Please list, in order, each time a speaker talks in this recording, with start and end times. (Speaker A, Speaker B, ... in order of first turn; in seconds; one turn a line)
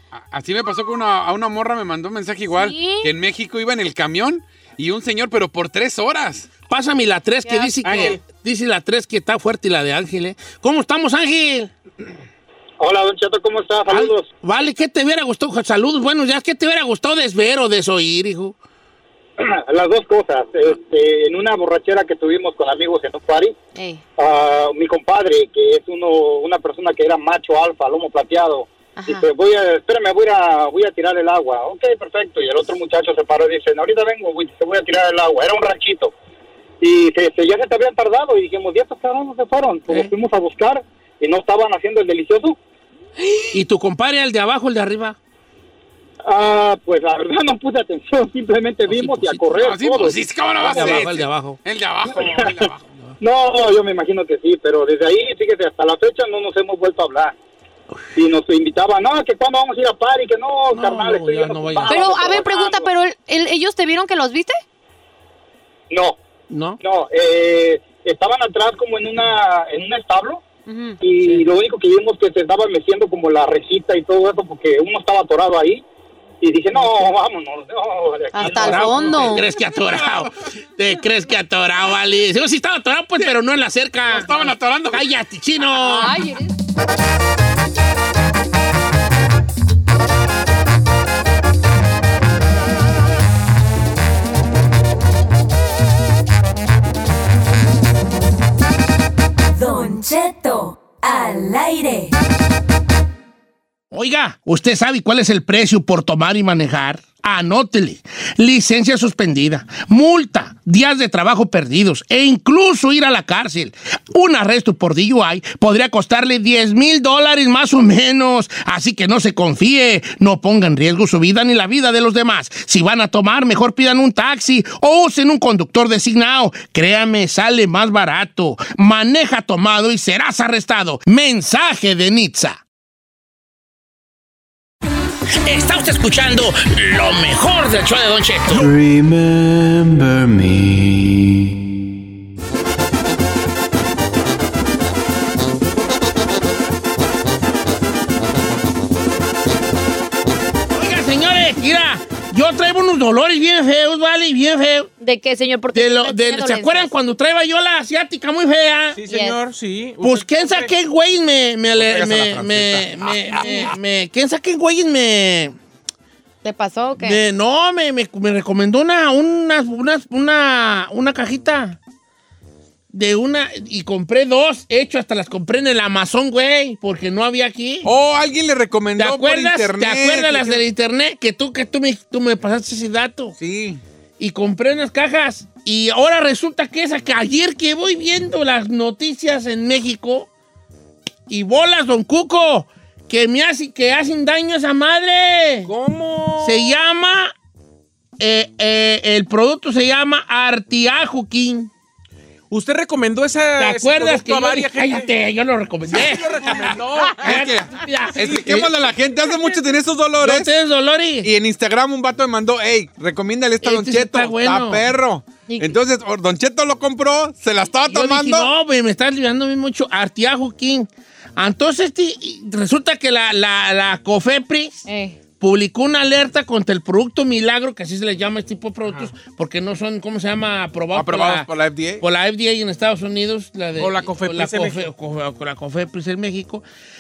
Speaker A: 0.1-6.5
Speaker B: 2.5-3.1
Speaker C: 6.7-11.7
Speaker B: 7.4-8.0
Speaker D: 7.8-8.2
Speaker E: 12.8-14.3
Speaker C: 13.9-18.6
Speaker E: 19.4-23.6
Speaker B: 23.7-24.0
Speaker E: 24.2-36.1
Speaker B: 28.9-29.3
Speaker E: 36.8-42.6
Speaker C: 43.5-45.2
Speaker E: 46.2-50.2
Speaker C: 48.9-49.6
Speaker A: 49.5-52.8
Speaker C: 50.6-51.6
Speaker E: 50.7-51.0
Speaker E: 52.1-52.6
Speaker C: 52.9-53.1
Speaker E: 53.2-57.3
Speaker E: 58.1-62.9
Speaker C: 60.7-62.1
Speaker B: 61.9-64.6
Speaker E: 65.9-66.2
Speaker C: 66.5-66.8
Speaker E: 66.8-70.4
Speaker B: 70.7-71.0
Speaker E: 71.0-75.8
Speaker E: 76.4-79.3
Speaker B: 78.3-79.4
Speaker C: 78.4-86.1
Speaker A: 84.1-85.1
Speaker B: 85.8-86.5
Speaker F: 99.5-102.1
Speaker C: 103.9-132.6
Speaker C: 135.4-138.7
Speaker G: 138.5-141.6
Speaker C: 150.7-154.9
Speaker B: 155.0-156.9
Speaker C: 155.7-159.0
Speaker D: 158.9-160.7
Speaker B: 159.1-159.3
Speaker C: 160.0-165.5
Speaker A: 161.7-163.7
Speaker B: 166.4-167.2
Speaker C: 167.0-171.8
Speaker C: 172.9-177.9
Speaker A: 177.8-180.6
Speaker C: 179.0-183.3
Speaker A: 183.4-183.8
Speaker C: 184.2-190.3
Speaker C: 191.3-195.7
Speaker D: 195.7-196.8
Speaker C: 196.4-197.3
Speaker C: 198.2-201.7
Speaker D: 202.5-205.1
Speaker C: 203.6-208.7
Speaker D: 205.9-207.4
Speaker A: 207.2-210.5
Speaker C: 210.2-211.3
Speaker A: 211.2-218.5
Speaker C: 213.6-214.8
Speaker B: 215.5-215.7
Speaker C: 217.9-224.8
Speaker B: 224.9-225.2
Speaker C: 225.4-236.6
Speaker A: 230.9-232.0
Speaker D: 233.8-234.9